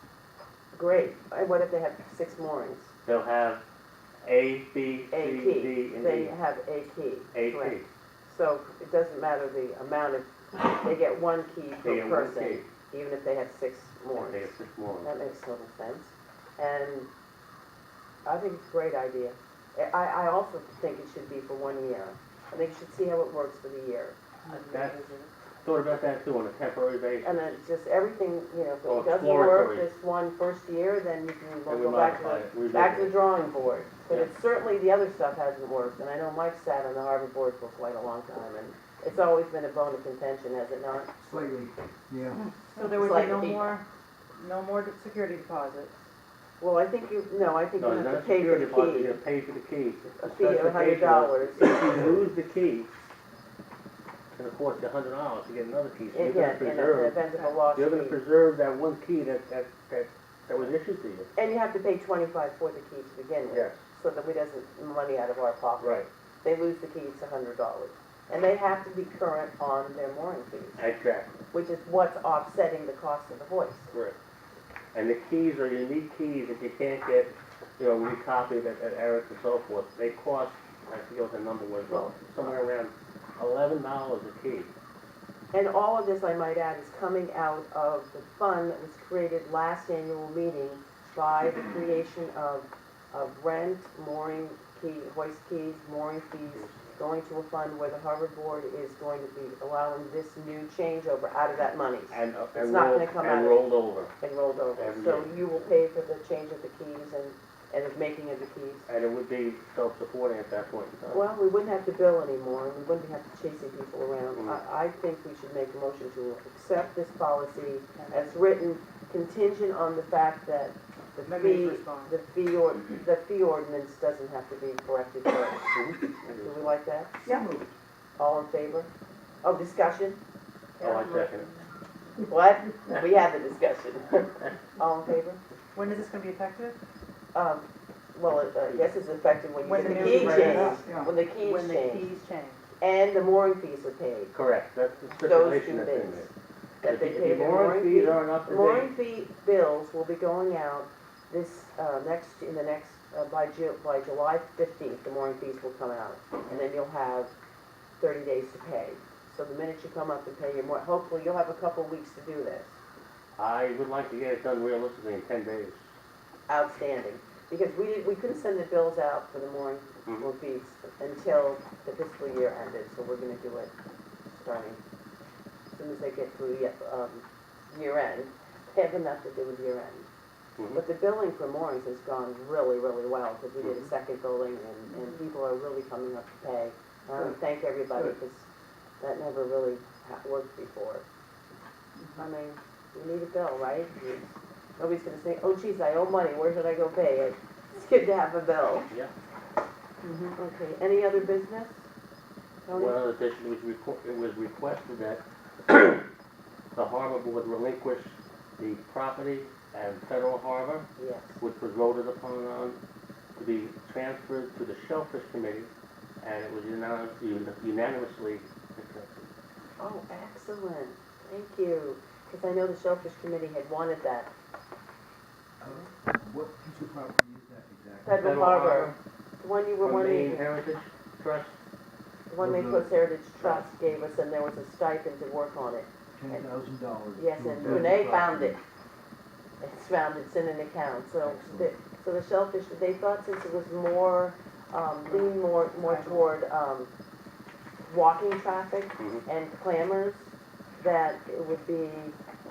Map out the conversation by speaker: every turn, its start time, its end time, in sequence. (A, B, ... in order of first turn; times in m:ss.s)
0:00.7-0:02.9 A
0:03.0-0:03.6 B
0:04.2-0:06.3 B
0:05.1-0:17.1 A
0:07.3-0:07.9 B
0:11.8-0:12.7 B
0:14.1-0:15.1 B
0:18.2-0:24.2 A
0:24.4-0:25.3 C
0:24.7-0:25.1 B
0:25.6-0:27.4 B
0:27.2-0:41.1 A
0:28.9-0:29.9 B
0:31.7-0:33.2 B
0:41.2-0:42.5 D
0:42.7-0:46.0 C
0:42.9-0:43.8 A
0:46.6-0:49.2 A
0:47.8-0:52.9 B
0:50.2-0:52.0 A
0:54.3-1:01.3 B
0:56.1-0:58.2 A
1:01.4-1:10.8 A
1:03.5-1:03.8 B
1:05.8-1:06.1 B
1:10.8-1:11.3 B
1:11.5-1:13.9 A
1:13.9-1:14.2 B
1:14.9-1:24.7 B
1:21.9-1:22.6 A
1:25.5-1:43.7 A
1:42.1-1:44.1 B
1:44.2-1:48.9 A
1:44.8-1:45.3 B
1:48.9-1:51.3 B
1:51.1-2:05.8 A
1:54.4-1:54.6 B
1:58.0-1:58.2 C
2:01.2-2:02.1 C
2:05.7-2:06.7 B
2:06.4-2:07.2 A
2:07.2-2:07.7 D
2:08.2-2:08.9 A
2:09.4-2:10.2 A
2:10.8-2:11.3 A
2:10.8-2:11.5 B
2:12.2-2:15.4 A
2:15.7-2:16.8 C
2:17.3-2:22.1 A
2:19.6-2:22.7 C
2:19.8-2:20.8 B
2:20.2-2:21.1 D
2:22.8-2:24.3 A
2:24.3-2:26.3 B
2:25.2-2:26.3 A
2:26.8-2:37.3 A
2:26.8-2:28.9 B
2:38.0-2:42.8 A
2:43.4-2:45.8 B
2:46.5-2:53.7 A
2:54.3-2:54.8 A
2:55.7-3:00.1 A
3:00.7-3:08.5 A
3:03.6-3:03.9 B
3:09.0-3:11.0 A
3:12.2-3:18.9 A
3:20.0-3:20.3 C
3:20.3-3:21.8 A
3:22.6-3:23.0 A
3:22.7-3:26.0 B
3:26.8-3:32.8 B
3:31.0-3:31.4 A
3:33.4-3:35.7 B
3:36.2-3:39.3 B
3:39.8-3:44.3 A
3:45.6-3:48.2 D
3:48.0-3:50.4 A
3:48.2-3:49.0 B
3:49.8-3:51.6 B
3:52.3-3:56.5 A
3:52.4-3:53.0 D
3:53.4-3:53.7 B
3:56.2-3:58.6 D
3:57.2-3:58.6 A
3:59.6-4:06.9 A
4:01.2-4:01.7 D
4:05.9-4:06.2 C
4:07.9-4:12.2 A